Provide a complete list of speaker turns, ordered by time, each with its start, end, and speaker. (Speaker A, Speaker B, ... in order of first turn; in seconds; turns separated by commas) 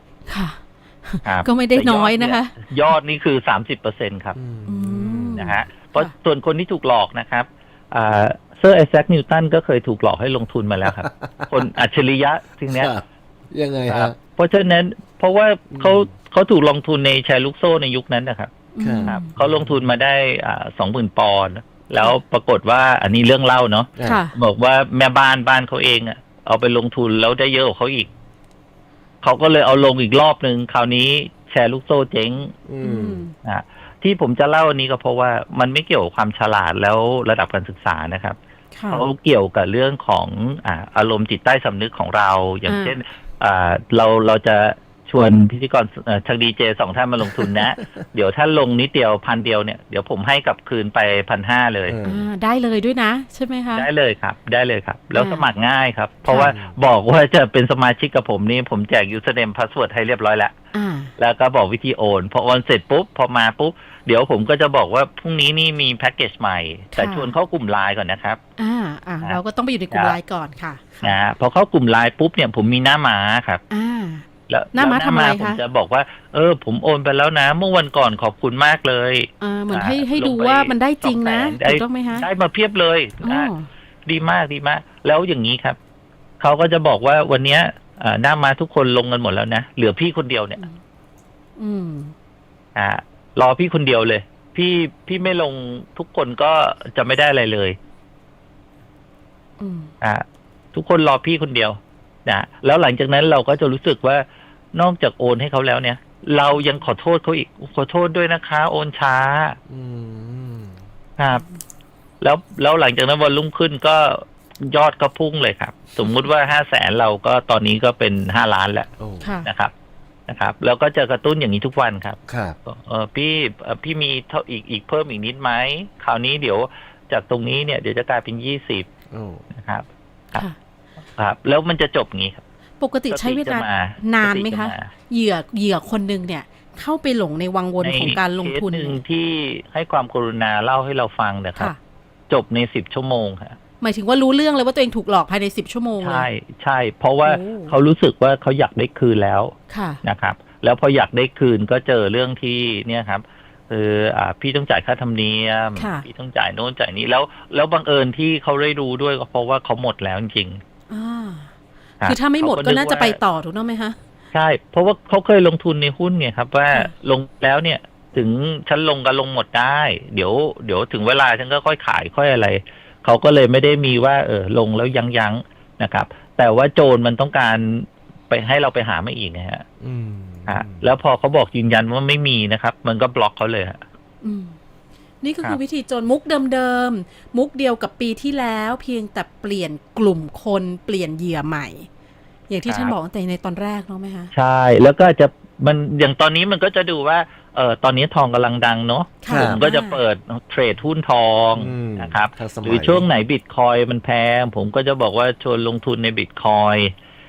Speaker A: 0.3-2.5, Speaker B: 1.2-4.4, Speaker C: 4.3-5.7, Speaker A: 4.7-6.1, Speaker B: 5.3-12.9, Speaker C: 10.8-11.7, Speaker C: 12.7-14.2, Speaker B: 13.9-18.5, Speaker C: 15.7-16.1, Speaker A: 18.7-19.3, Speaker C: 18.8-19.8, Speaker B: 19.1-28.1, Speaker A: 24.0-24.4, Speaker B: 29.2-32.5, Speaker C: 32.6-33.2, Speaker A: 32.8-33.3, Speaker B: 33.4-38.4, Speaker A: 38.7-39.1, Speaker B: 38.9-52.0, Speaker A: 42.7-43.0, Speaker C: 47.4-47.7, Speaker C: 51.9-52.3, Speaker A: 52.0-53.9, Speaker B: 53.7-60.5, Speaker A: 55.1-55.5, Speaker A: 56.3-56.5, Speaker C: 56.3-56.8, Speaker A: 60.7-61.1, Speaker B: 61.2-68.4, Speaker A: 67.0-67.3, Speaker A: 68.6-71.2, Speaker B: 71.0-73.6, Speaker A: 73.7-75.6, Speaker B: 74.5-83.5, Speaker A: 79.4-82.3, Speaker A: 83.2-83.7, Speaker B: 84.1-85.8, Speaker B: 86.4-90.6, Speaker A: 91.6-92.1, Speaker B: 92.8-97.8, Speaker A: 99.6-99.9, Speaker B: 100.0-109.6, Speaker C: 109.7-110.8, Speaker B: 111.2-111.4, Speaker B: 112.2-118.9, Speaker C: 119.0-119.3, Speaker A: 119.2-119.5, Speaker B: 119.5-119.7, Speaker B: 120.3-128.9, Speaker C: 122.3-122.6, Speaker C: 129.1-129.4, Speaker B: 129.5-130.4, Speaker B: 131.2-132.4, Speaker A: 132.8-139.0, Speaker B: 133.1-134.9, Speaker B: 137.8-141.7, Speaker B: 142.3-143.6, Speaker A: 143.8-146.3, Speaker B: 146.0-160.6, Speaker A: 147.2-147.7, Speaker A: 149.7-150.0, Speaker A: 155.8-156.1, Speaker A: 160.9-161.5, Speaker B: 162.0-163.2, Speaker A: 162.1-164.0, Speaker B: 164.3-179.7, Speaker C: 179.8-180.8, Speaker B: 180.5-183.8, Speaker A: 184.2-184.6, Speaker A: 185.2-191.9, Speaker A: 192.5-194.3, Speaker B: 192.7-192.9, Speaker B: 194.3-206.9, Speaker A: 199.2-200.0, Speaker C: 199.3-199.6, Speaker C: 201.5-203.1